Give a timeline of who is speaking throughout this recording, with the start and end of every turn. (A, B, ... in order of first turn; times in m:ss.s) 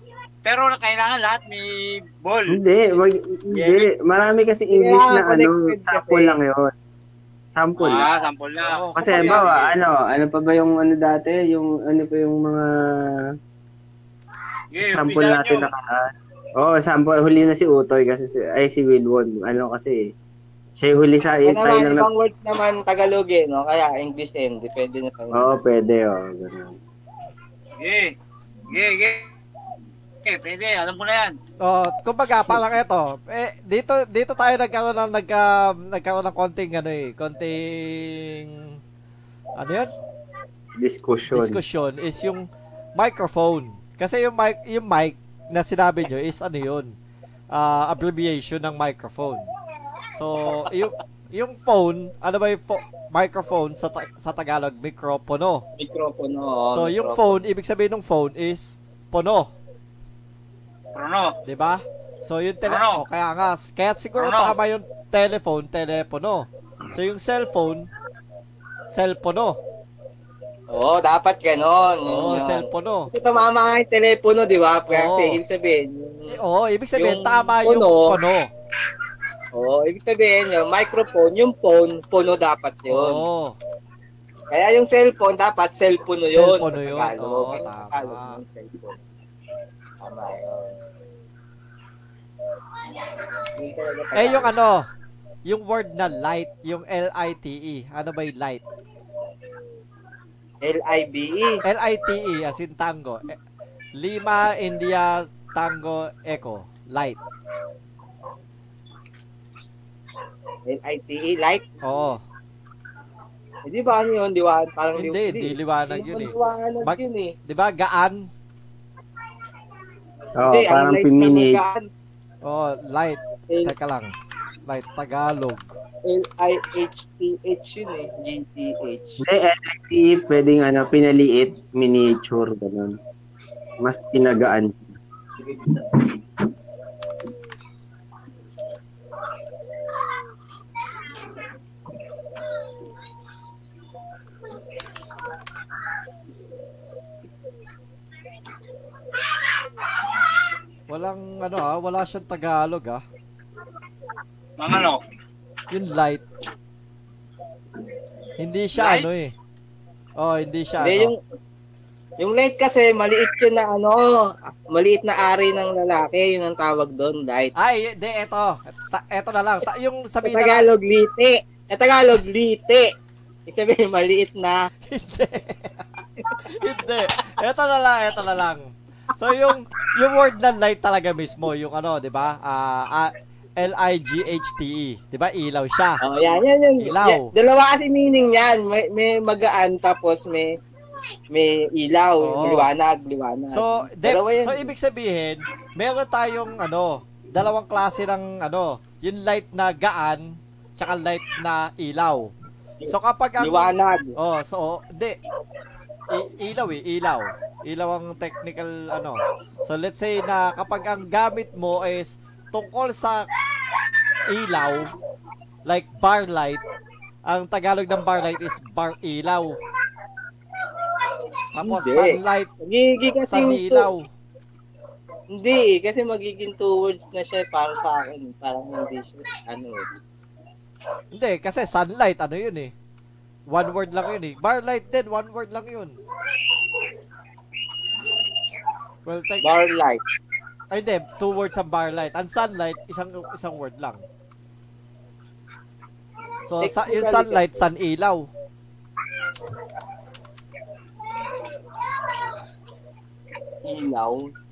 0:00.4-0:02.6 A
0:02.5-0:06.7 B
0:03.5-0:03.9 A
0:04.7-0:06.4 C
0:07.5-0:08.1 B
0:07.8-0:09.8 A
0:08.6-0:09.5 D
0:09.0-0:13.3 B
0:14.7-0:15.7 A
0:14.8-0:20.1 B
0:20.8-0:22.1 B
0:21.5-0:25.6 C
0:25.3-0:26.7 B
0:27.8-0:28.2 A
0:28.7-0:29.3 A
0:30.3-0:31.3 A
0:31.6-0:38.8 D
0:39.6-0:39.9 D
0:40.8-0:41.6 B
0:41.3-0:47.0 D
0:47.5-0:49.5 D
0:50.1-0:55.6 D
0:55.8-0:57.4 C
0:56.7-0:59.5 D
1:01.0-1:01.3 A
1:01.4-1:07.9 D
1:02.6-1:03.0 A
1:04.2-1:04.6 A
1:08.9-1:09.6 D
1:10.7-1:16.4 C
1:12.0-1:13.1 D
1:14.9-1:15.4 D
1:16.3-1:18.5 D
1:17.0-1:18.2 C
1:19.5-1:23.2 C
1:22.9-1:23.6 D
1:24.5-1:29.0 C
1:26.3-1:28.4 D
1:30.0-1:30.8 C
1:33.6-1:34.5 C
1:34.2-1:34.9 D
1:35.4-1:38.6 D
1:40.6-1:41.6 C
1:41.6-1:43.4 D
1:44.0-1:47.2 D
1:50.7-1:51.6 C
1:51.8-1:52.2 D
1:53.7-1:57.4 C
1:55.0-1:58.3 D
2:00.4-2:01.6 B
2:00.5-2:01.9 C
2:02.4-2:04.1 D
2:04.7-2:05.8 D
2:06.1-2:09.2 C
2:09.2-2:13.0 B
2:13.8-2:14.8 B
2:30.9-2:33.0 D
2:34.6-2:35.0 A
2:35.7-2:36.2 D
2:38.4-2:39.3 D
2:38.8-2:39.1 A
2:40.2-2:41.1 D
2:40.8-2:41.2 C
2:42.2-2:47.5 C
2:47.6-2:50.7 D
2:50.2-2:52.9 C
2:53.5-2:54.7 C
2:54.9-2:55.8 D
2:56.5-3:06.0 D
3:06.0-3:10.6 C
3:06.8-3:07.3 D
3:11.3-3:14.7 C
3:12.2-3:12.7 D
3:13.5-3:22.3 D
3:22.8-3:24.2 C
3:22.9-3:25.2 D
3:26.1-3:33.3 D
3:34.3-3:34.9 D
3:35.7-3:36.6 D
3:37.3-3:39.6 D
3:41.5-3:42.5 D
3:41.6-3:43.9 C
3:43.2-3:44.1 D
3:45.3-3:49.9 C
3:51.1-3:52.7 D
3:53.5-3:56.0 D
3:59.1-3:59.4 D
3:59.4-4:00.0 C
4:00.7-4:04.0 D
4:06.5-4:08.3 D
4:06.6-4:07.5 C
4:13.6-4:14.3 C